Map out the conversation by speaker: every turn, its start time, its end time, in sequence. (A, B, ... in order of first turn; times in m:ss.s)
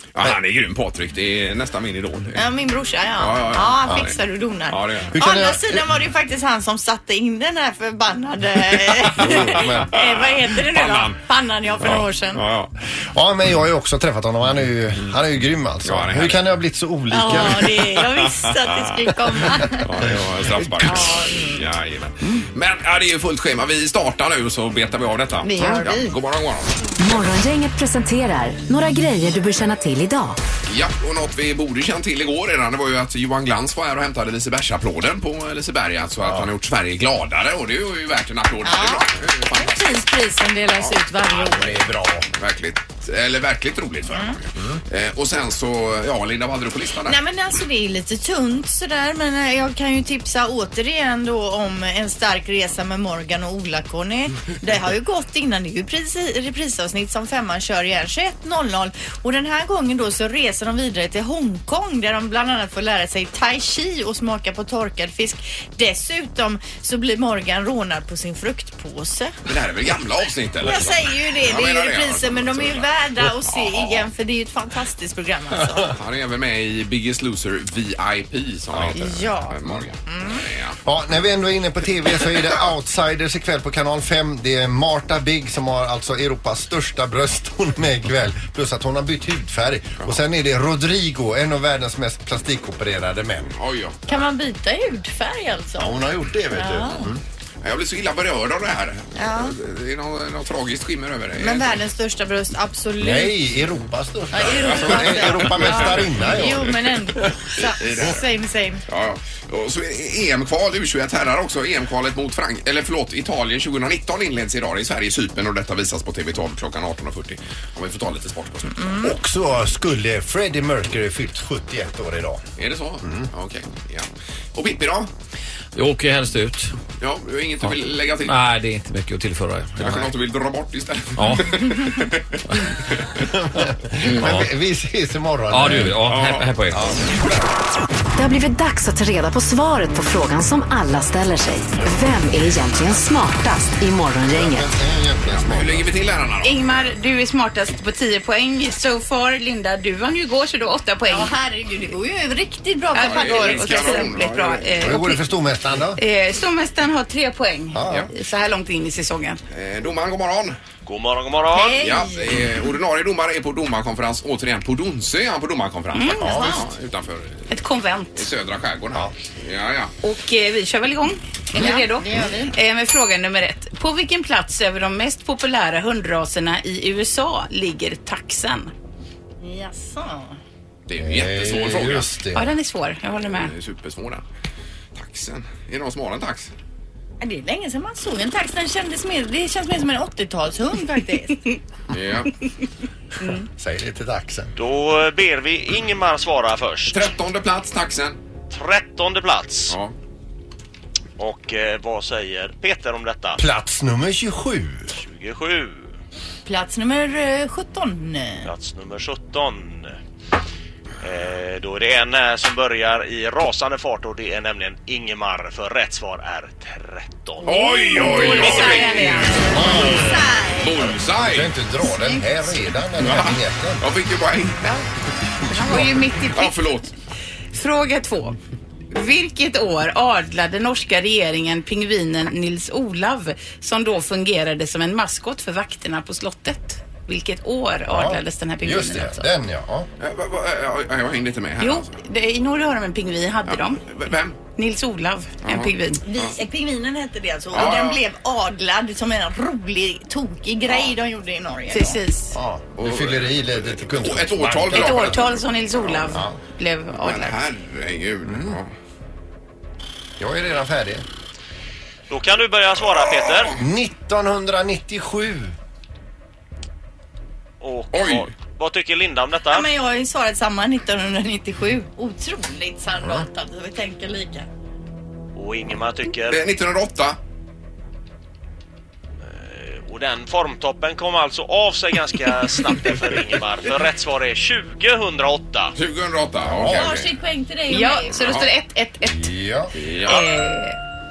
0:00.1-0:02.4 A
0:02.4-0:12.4 B
0:03.2-0:04.1 A
0:04.7-0:05.1 A
0:05.1-0:05.8 C
0:08.9-0:11.2 A
0:09.2-0:09.9 C
0:11.8-0:12.7 A
0:13.1-0:17.7 C
0:15.8-0:16.4 A
0:17.1-0:19.8 B
0:17.3-0:19.1 A
0:19.7-0:26.7 A
0:20.6-0:21.0 C
0:20.8-0:21.6 B
0:25.4-0:26.1 B
0:27.0-0:30.4 D
0:30.7-0:39.9 A
0:36.2-0:36.5 C
0:38.6-0:41.8 B
0:41.4-0:42.3 C
0:42.4-0:47.2 A
0:44.1-0:44.4 B
0:47.1-1:09.3 B
1:09.4-1:14.1 A
1:10.6-1:15.9 B
1:15.9-1:20.8 A
1:18.9-1:20.4 B
1:20.8-1:33.5 C
1:33.6-1:34.0 A
1:34.1-1:35.9 B
1:35.8-1:37.2 C
1:36.5-1:37.1 B
1:37.6-1:41.7 A
1:39.2-1:39.5 B
1:41.4-1:43.3 B
1:43.0-1:46.7 C
1:44.3-1:48.8 B
1:44.4-1:46.7 A
1:47.6-1:48.2 A
1:48.9-1:59.0 A
1:58.8-1:59.1 B
1:59.0-2:02.4 C
2:02.6-2:05.1 A
2:03.0-2:03.3 C
2:05.7-2:06.7 E
2:07.0-2:08.4 A
2:08.2-2:10.0 E
2:09.8-2:13.2 A
2:11.2-2:11.5 E
2:13.3-2:16.0 C
2:15.5-2:16.8 E
2:16.0-2:16.5 A
2:16.7-2:17.3 C
2:18.2-2:24.7 D
2:24.2-2:25.8 C
2:25.3-2:26.7 A
2:26.4-2:31.3 F
2:31.1-2:34.1 B
2:32.9-2:35.2 F
2:33.0-2:34.7 A
2:34.8-2:36.0 C
2:36.0-2:39.4 F
2:37.7-2:38.1 C
2:39.5-2:40.6 A
2:40.8-2:41.8 G
2:41.5-2:42.5 B
2:41.8-2:47.5 A
2:45.9-2:46.6 F
2:46.2-2:46.6 C
2:46.2-2:46.6 B
2:47.5-2:48.3 F
2:48.1-2:49.9 A
2:50.0-2:58.7 F
2:51.5-2:52.5 B
2:59.4-3:00.4 B
3:00.8-3:02.1 A
3:01.0-3:02.5 C
3:02.3-3:03.5 F
3:03.2-3:04.2 A
3:04.9-3:06.5 A
3:07.2-3:11.6 B
3:11.9-3:12.3 A
3:13.6-3:14.5 C
3:14.6-3:17.1 G
3:16.9-3:18.2 A
3:18.5-3:19.8 G
3:19.7-3:19.9 A
3:21.2-3:23.4 G
3:23.4-3:25.0 C
3:24.9-3:25.9 G
3:26.4-3:28.5 B
3:28.4-3:30.0 G
3:31.0-3:37.4 G
3:37.4-3:39.5 A
3:37.5-3:41.0 B
3:37.5-3:39.6 F
3:39.5-3:40.3 C
3:40.6-3:41.5 A
3:41.1-3:43.8 C
3:42.0-3:42.6 B
3:43.0-3:44.7 A
3:45.5-3:46.6 F
3:46.3-3:46.9 A
3:47.5-3:48.4 F
3:48.9-3:59.3 F
3:57.9-3:59.9 C
4:00.0-4:01.9 A
4:01.6-4:03.8 F
4:03.4-4:04.4 A
4:04.6-4:06.0 F
4:05.4-4:06.3 A
4:06.0-4:12.0 B
4:07.5-4:08.0 A
4:11.7-4:12.4 F
4:12.3-4:15.2 C
4:12.8-4:16.2 A
4:14.7-4:17.4 F
4:17.0-4:18.7 A
4:18.2-4:18.6 C
4:20.2-4:21.0 C
4:22.1-4:23.6 G
4:23.2-4:23.5 A
4:23.5-4:25.5 C
4:27.6-4:29.7 G
4:27.9-4:28.3 A
4:29.5-4:34.5 B
4:35.3-4:36.5 G
4:36.3-4:37.2 A
4:39.2-4:45.7 G
4:45.8-4:47.1 A
4:46.4-4:46.9 C
4:46.6-4:48.4 B
4:47.7-4:49.3 F
4:48.1-4:48.5 A
4:49.0-4:49.7 C
4:49.7-4:50.2 A
4:50.0-4:50.8 F